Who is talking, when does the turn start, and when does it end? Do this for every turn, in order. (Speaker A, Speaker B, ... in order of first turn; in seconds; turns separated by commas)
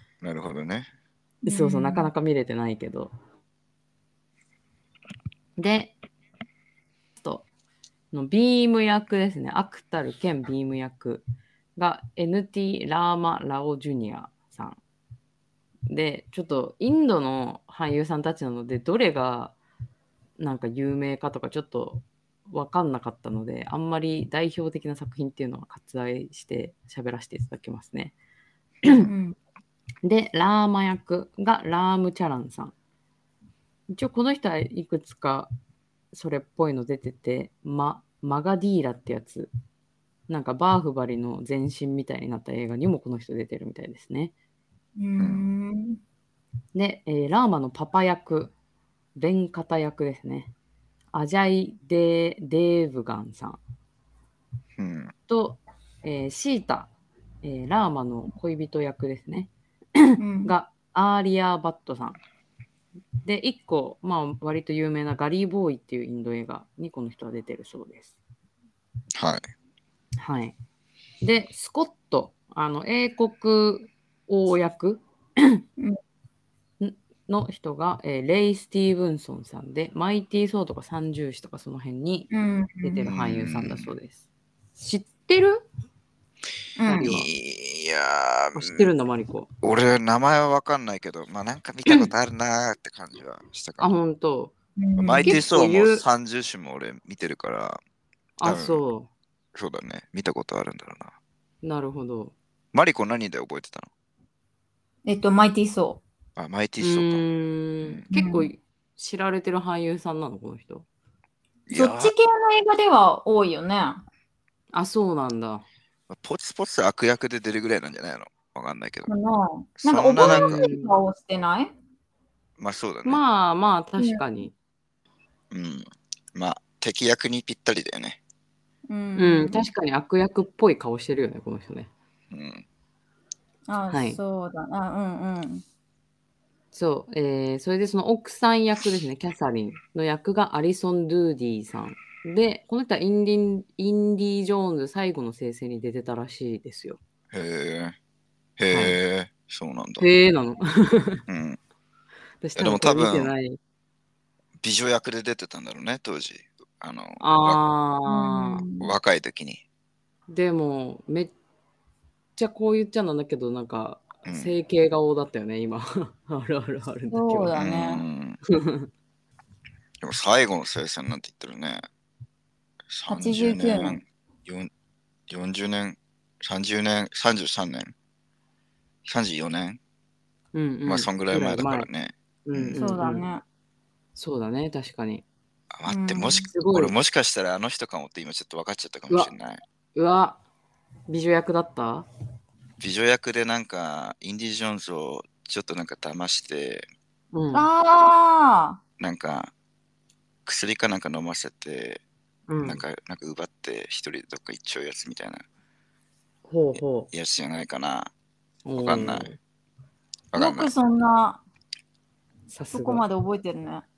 Speaker A: 0.2-0.9, Speaker B: 1.4-2.1, Speaker C: 1.4-3.1, Speaker C: 5.6-5.9, Speaker C: 7.2-7.5, Speaker C: 8.1-11.2, Speaker C: 11.8-14.8, Speaker C: 15.9-19.6, Speaker C: 20.4-28.1, Speaker C: 28.8-29.1, Speaker B: 28.9-29.4, Speaker C: 30.0-32.7, Speaker C: 33.9-35.5, Speaker C: 36.1-39.5, Speaker C: 40.3-44.3, Speaker B: 45.0-46.0, Speaker A: 45.2-45.4, Speaker C: 46.7-48.5, Speaker C: 49.1-50.5, Speaker C: 51.1-53.6, Speaker A: 54.8-55.1, Speaker C: 55.3-56.9, Speaker C: 57.4-62.2, Speaker B: 60.2-60.5, Speaker C: 63.2-68.1, Speaker A: 69.1-69.4, Speaker C: 70.2-70.5, Speaker C: 71.2-75.6, Speaker C: 76.8-82.3, Speaker B: 82.3-83.0, Speaker C: 82.8-84.2, Speaker A: 83.0-83.9, Speaker C: 84.8-85.6, Speaker B: 86.8-87.1, Speaker C: 86.9-87.3, Speaker A: 87.0-88.9, Speaker C: 88.5-89.5, Speaker A: 89.6-93.9, Speaker C: 93.8-94.5, Speaker B: 94.8-95.4, Speaker A: 95.0-97.8, Speaker C: 95.2-96.0, Speaker C: 98.4-99.1, Speaker A: 98.4-98.8, Speaker A: 99.5-101.1, Speaker C: 101.6-102.3, Speaker A: 102.7-103.9, Speaker B: 105.0-106.0, Speaker A: 106.3-107.2, Speaker C: 106.8-110.8, Speaker B: 108.1-108.5, Speaker A: 111.7-112.1, Speaker B: 111.7-114.0, Speaker C: 114.7-115.6, Speaker A: 116.1-119.1, Speaker B: 119.0-121.7, Speaker A: 119.8-120.6, Speaker C: 120.2-120.9, Speaker A: 122.6-123.2, Speaker C: 123.0-124.5, Speaker A: 125.5-128.2, Speaker B: 128.9-129.7, Speaker C: 129.2-131.9, Speaker A: 132.3-132.6, Speaker B: 133.7-135.6, Speaker C: 133.9-134.2, Speaker C: 136.7-147.0, Speaker A: 147.3-147.9, Speaker A: 148.6-150.1, Speaker C: 148.7-149.0, Speaker C: 150.0-151.2, Speaker A: 151.3-151.6, Speaker C: 152.4-153.6, Speaker A: 152.6-153.3, Speaker A: 154.6-157.6, Speaker C: 157.2-158.6, Speaker B: 158.1-158.9, Speaker A: 158.8-159.6, Speaker C: 160.3-161.3, Speaker C: 162.3-167.5, Speaker A: 164.2-164.5, Speaker B: 167.1-168.0, Speaker A: 167.5-168.4, Speaker C: 168.5-168.9, Speaker A: 170.0-171.8, Speaker A: 172.9-174.7, Speaker B: 173.1-174.0, Speaker A: 175.3-177.9, Speaker A: 179.1-179.8, Speaker C: 180.5-181.9, Speaker A: 180.8-182.8, Speaker C: 182.4-183.3, Speaker B: 182.8-183.4, Speaker C: 184.1-185.2, Speaker A: 185.7-189.6, Speaker B: 185.9-186.5, Speaker C: 186.5-186.9, Speaker C: 189.9-190.4, Speaker C: 191.1-192.1, Speaker A: 192.8-196.8, Speaker C: 197.3-197.7, Speaker B: 197.5-198.8, Speaker A: 199.0-199.5, Speaker A: 200.4-202.0, Speaker C: 202.5-202.8, Speaker A: 202.6-205.4, Speaker C: 206.4-207.1, Speaker A: 206.8-208.1, Speaker C: 208.6-209.4, Speaker A: 208.8-209.3, Speaker A: 210.3-210.7, Speaker B: 210.3-211.4, Speaker C: 212.5-213.0, Speaker B: 212.7-213.8